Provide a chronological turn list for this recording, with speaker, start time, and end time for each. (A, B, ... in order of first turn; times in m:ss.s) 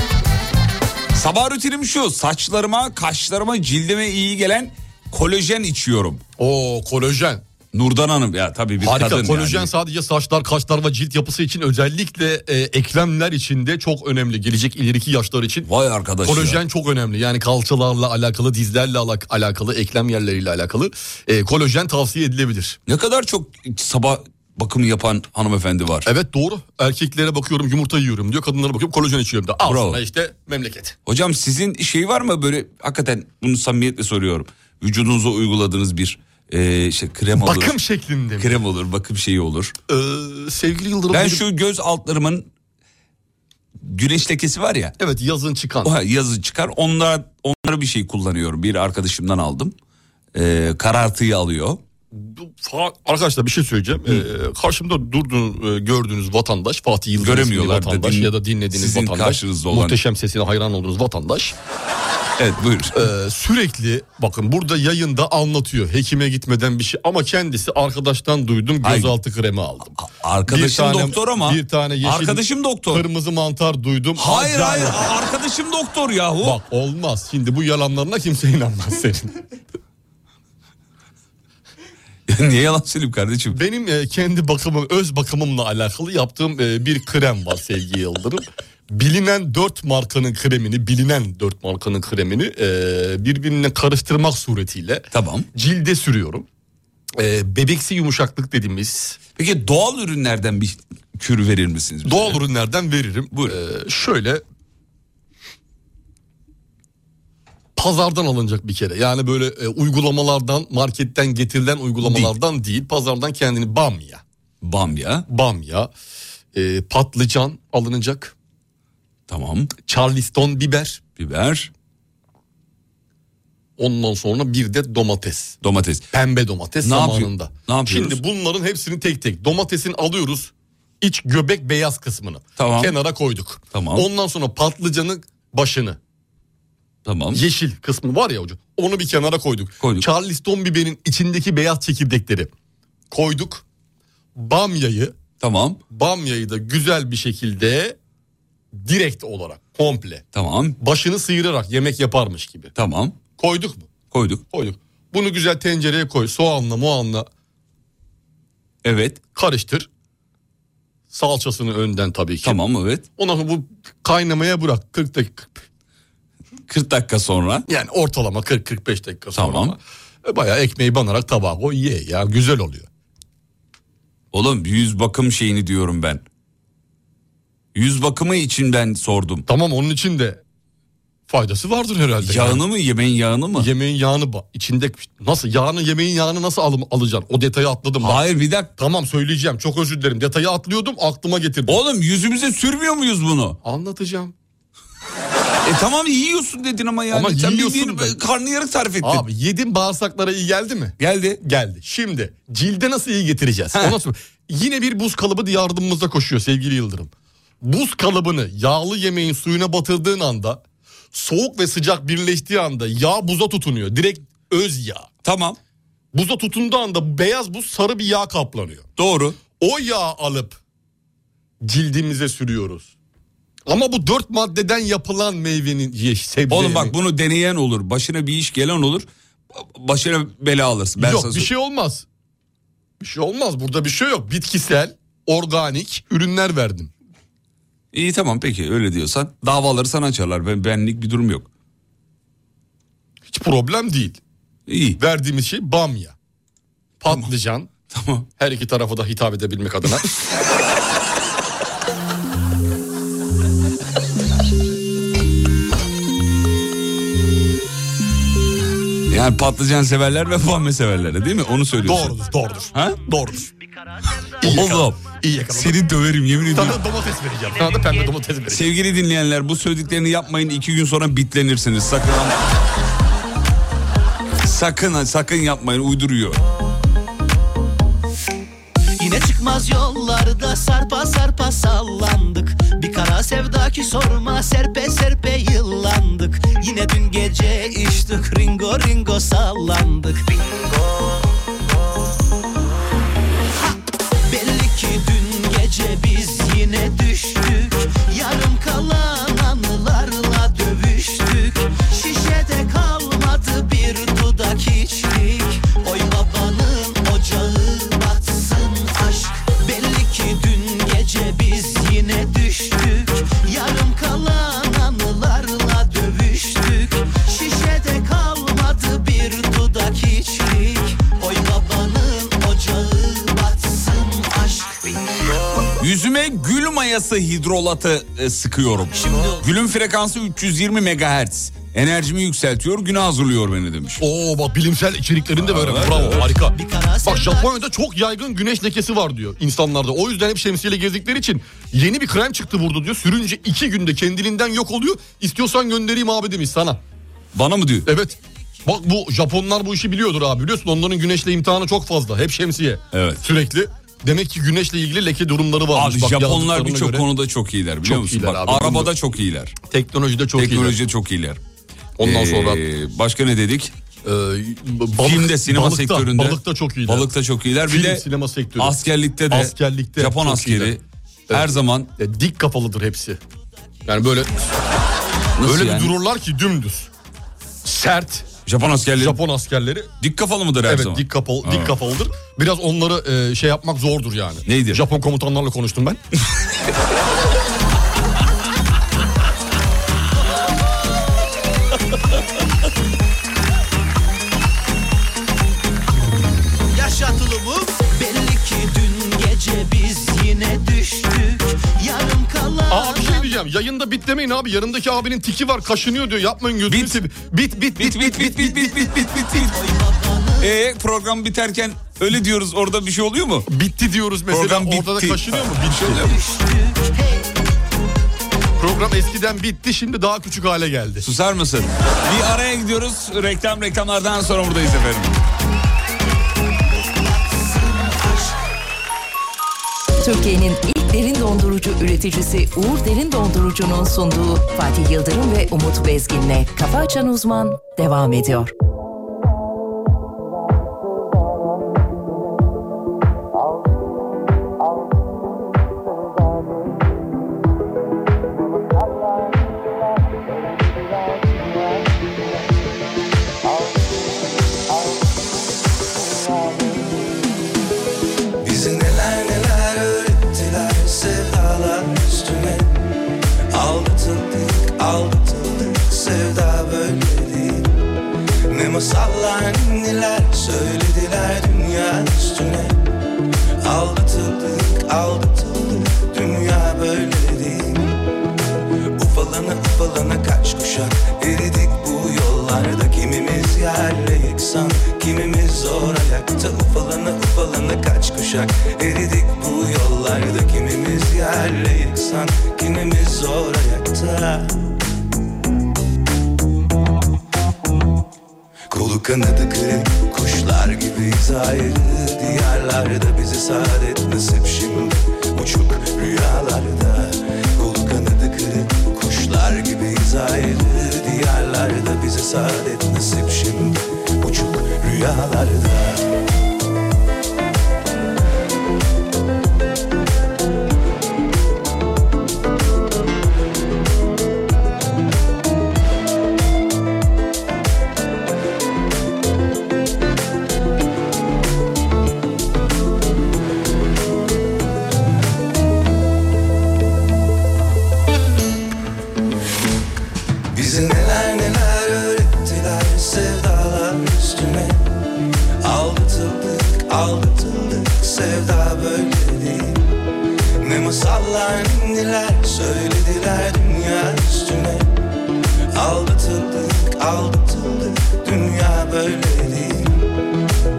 0:01.1-0:06.2 A
0:06.4-0:07.4 B
0:07.7-0:09.7 A
0:08.8-0:15.7 B
0:15.6-0:16.6 A
0:16.2-0:22.8 B
0:22.9-0:26.1 A
0:26.0-0:30.9 B
0:29.6-0:30.0 A
0:31.0-0:37.7 A
0:37.3-0:38.5 B
0:38.4-0:39.7 A
0:39.9-0:41.4 B
0:41.1-0:42.4 A
0:43.8-0:44.9 A
0:45.0-0:45.9 B
0:45.8-0:49.7 A
0:50.3-0:51.8 A
0:52.1-1:01.6 B
0:57.2-1:00.0 A
1:02.4-1:03.1 A
1:02.9-1:09.9 B
1:08.8-1:09.1 A
1:10.0-1:13.0 A
1:10.5-1:15.0 B
1:14.2-1:16.6 A
1:16.4-1:19.4 B
1:22.3-1:23.6 A
1:23.5-1:36.4 B
1:35.1-1:35.4 A
1:37.2-1:39.2 B
1:39.4-1:42.4 A
1:42.0-1:44.4 B
1:47.8-1:54.2 B
1:52.0-1:52.3 A
1:54.6-1:55.2 A
1:55.3-1:55.9 B
1:56.5-1:58.3 B
1:59.3-1:59.7 A
1:59.8-2:01.0 B
2:01.2-2:01.7 A
2:03.8-2:05.6 B
2:05.6-2:06.1 A
2:06.1-2:16.0 B
2:06.8-2:08.2 A
2:12.6-2:12.9 A
2:13.7-2:14.1 A
2:17.0-2:17.4 A
2:17.3-2:22.5 B
2:19.8-2:20.1 A
2:23.1-2:23.6 B
2:24.4-2:25.2 B
2:25.4-2:25.8 A
2:25.9-2:28.0 B
2:28.7-2:30.2 B
2:30.3-2:30.8 A
2:30.8-2:32.7 B
2:32.8-2:33.2 A
2:33.4-2:33.9 B
2:34.1-2:34.4 A
2:34.5-2:37.3 B
2:38.8-2:39.2 A
2:39.3-2:39.9 B
2:41.1-2:42.6 B
2:42.4-2:43.0 A
2:43.2-2:45.6 B
2:46.7-2:47.6 A
2:47.7-2:52.9 B
2:49.3-2:49.8 A
2:54.3-2:56.2 A
2:57.7-2:59.4 A
2:59.5-3:00.4 B
3:01.3-3:02.6 B
3:02.2-3:03.7 A
3:03.6-3:08.2 B
3:08.0-3:08.7 A
3:08.8-3:11.8 B
3:11.7-3:13.6 A
3:13.6-3:14.3 B
3:15.6-3:19.2 A
3:17.1-3:18.2 B
3:19.0-3:27.1 B
3:21.0-3:21.4 A
3:27.6-3:30.6 B
3:31.1-3:35.1 B
3:35.2-3:35.6 A
3:36.1-3:38.8 B
3:39.0-3:39.4 A
3:39.5-3:40.6 B
3:41.6-3:42.9 B
3:43.6-3:46.9 B
3:46.5-3:51.5 A
3:51.0-3:52.0 B
3:53.0-3:56.9 B
3:57.9-4:01.5 A
4:03.3-4:04.2 B
4:04.7-4:05.0 A
4:05.0-4:06.1 B
4:07.0-4:07.7 B
4:07.9-4:08.3 A
4:08.4-4:10.1 B
4:19.1-4:22.2 A
4:21.8-4:23.5 B
4:22.7-4:23.0 A
4:24.4-4:25.8 B
4:24.4-4:26.8 A
4:26.5-4:28.7 B
4:28.5-4:32.4 A
4:34.4-4:36.4 A
4:39.0-4:50.2 C
4:54.3-5:25.0 C
5:25.8-5:34.0 A
5:28.9-5:29.4 C
5:34.0-5:46.8 B
5:35.4-5:36.3 A
5:36.5-5:37.5 C
5:47.3-5:47.9 A
5:47.8-5:57.0 B
5:52.9-5:53.2 A
5:55.7-5:59.6 A
5:57.8-5:58.9 B
5:59.7-6:00.8 B
6:00.4-6:01.4 A
6:02.0-6:02.6 B
6:02.0-6:03.7 A
6:04.0-6:07.1 B
6:05.0-6:08.0 A
6:07.7-6:08.8 B
6:08.6-6:10.8 A
6:09.3-6:10.8 B
6:11.3-6:13.2 B
6:11.3-6:11.9 A
6:13.8-6:14.3 B
6:15.4-6:15.9 A
6:15.4-6:16.9 B
6:17.6-6:18.3 B
6:18.4-6:19.2 A
6:19.0-6:19.9 B
6:20.0-6:21.8 A
6:20.6-6:26.0 B
6:24.5-6:24.8 A
6:36.7-6:43.3 C
6:42.7-6:49.0 B
6:46.7-6:47.0 A
6:47.8-6:49.6 A
6:49.4-6:50.5 C
6:50.4-6:53.5 A
6:53.5-6:56.0 B
6:54.3-6:56.2 A
6:56.0-6:57.3 C
6:58.6-7:01.0 B
7:01.0-7:05.2 A
7:06.8-7:08.3 C
7:10.0-7:18.5 D
7:38.4-7:42.8 E
7:43.5-7:47.7 E
7:48.5-7:52.9 E
7:53.6-7:58.0 E
7:59.0-8:14.7 E
8:18.7-8:36.0 E
9:00.5-9:05.0 E
9:05.6-9:09.9 E
9:10.6-9:15.0 E
9:15.7-9:20.1 E